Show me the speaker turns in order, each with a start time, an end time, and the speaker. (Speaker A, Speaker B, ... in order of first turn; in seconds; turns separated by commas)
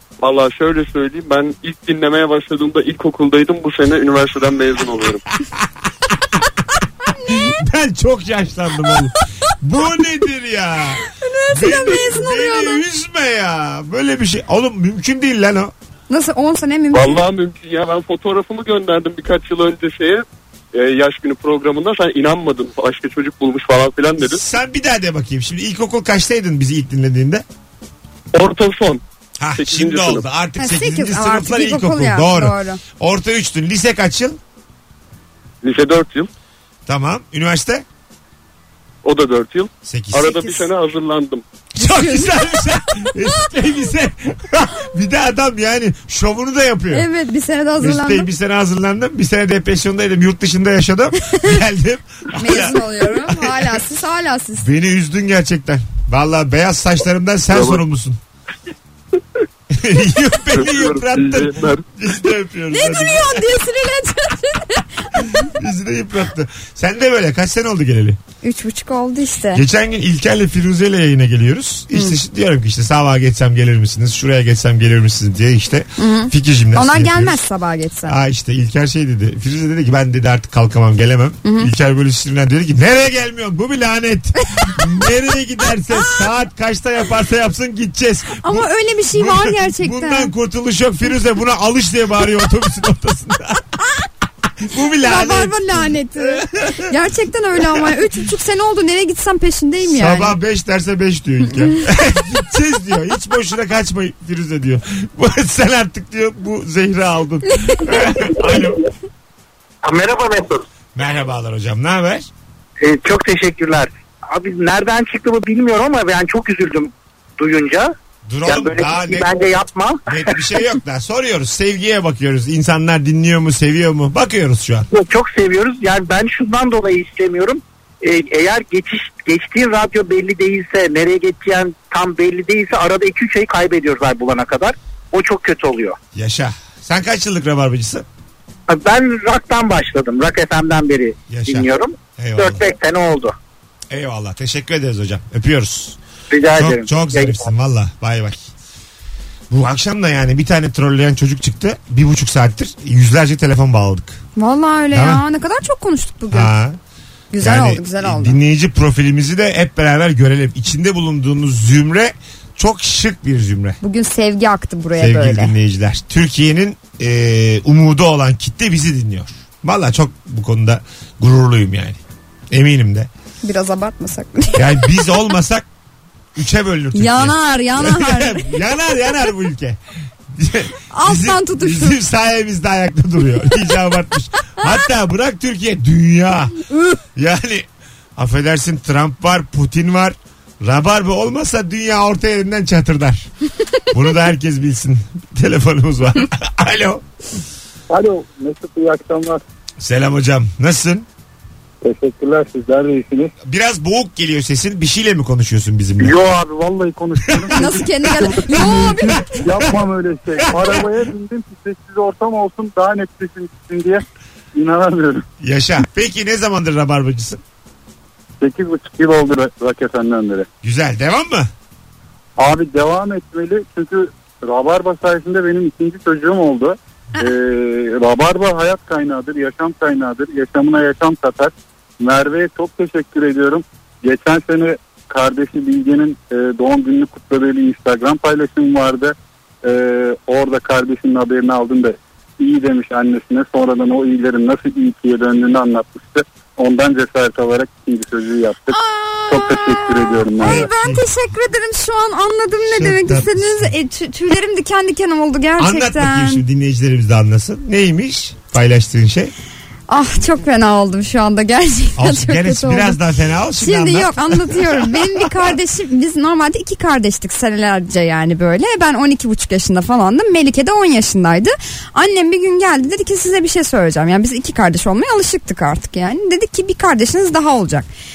Speaker A: 0.2-5.2, Speaker B: 7.1-7.5, Speaker C: 7.3-15.7, Speaker B: 11.1-12.8, Speaker B: 16.1-17.2, Speaker A: 16.9-24.4, Speaker C: 24.2-27.4, Speaker A: 28.3-29.0, Speaker C: 29.4-34.4, Speaker A: 29.6-30.2, Speaker B: 30.6-32.8, Speaker A: 35.6-36.3, Speaker C: 36.9-37.8, Speaker A: 39.0-41.4, Speaker C: 39.8-40.5, Speaker B: 41.8-42.3, Speaker C: 41.8-47.1, Speaker B: 46.9-48.3, Speaker C: 47.8-53.8, Speaker B: 52.3-54.7, Speaker C: 54.6-58.2, Speaker A: 57.5-57.8, Speaker C: 59.7-63.4, Speaker A: 60.5-61.8, Speaker B: 62.7-65.4, Speaker C: 65.2-68.2, Speaker B: 68.4-69.6, Speaker C: 69.5-77.4, Speaker B: 76.0-78.2, Speaker C: 78.1-93.6, Speaker B: 81.4-81.7, Speaker B: 85.9-86.2, Speaker B: 88.4-90.3, Speaker C: 94.6-96.9, Speaker B: 95.0-100.4, Speaker C: 99.8-108.9, Speaker D: 109.8-110.6, Speaker C: 110.9-112.3, Speaker D: 112.8-117.9, Speaker C: 118.2-119.3, Speaker D: 118.5-120.0, Speaker C: 120.1-124.9, Speaker D: 124.9-135.9, Speaker C: 136.1-138.0, Speaker D: 138.7-143.3, Speaker C: 141.3-142.6, Speaker C: 143.9-146.0, Speaker D: 146.3-147.5, Speaker C: 146.5-148.5, Speaker C: 149.5-154.2, Speaker B: 154.4-156.5, Speaker C: 154.9-155.2, Speaker C: 156.3-156.8, Speaker B: 157.3-158.4, Speaker C: 157.4-163.8, Speaker B: 163.8-165.5, Speaker C: 164.9-172.0, Speaker C: 172.5-173.1, Speaker B: 173.4-174.8, Speaker C: 174.5-175.7, Speaker C: 176.3-179.8, Speaker B: 176.9-178.5, Speaker C: 180.3-186.6, Speaker B: 180.9-182.0, Speaker B: 186.7-187.0, Speaker C: 187.2-193.3, Speaker C: 193.9-197.0, Speaker E: 197.9-199.4, Speaker C: 199.8-201.1, Speaker E: 201.8-203.3, Speaker C: 203.4-206.1, Speaker E: 206.0-214.0, Speaker C: 207.2-207.7, Speaker B: 207.5-209.4, Speaker E: 214.5-215.2, Speaker C: 215.4-217.4, Speaker E: 218.4-220.5, Speaker C: 220.6-221.5, Speaker E: 222.4-248.8, Speaker B: 248.7-256.4, Speaker E: 249.3-250.7, Speaker C: 250.4-251.0, Speaker C: 252.7-253.7, Speaker C: 255.6-259.3, Speaker B: 259.9-263.0, Speaker C: 261.9-265.4, Speaker B: 263.6-277.9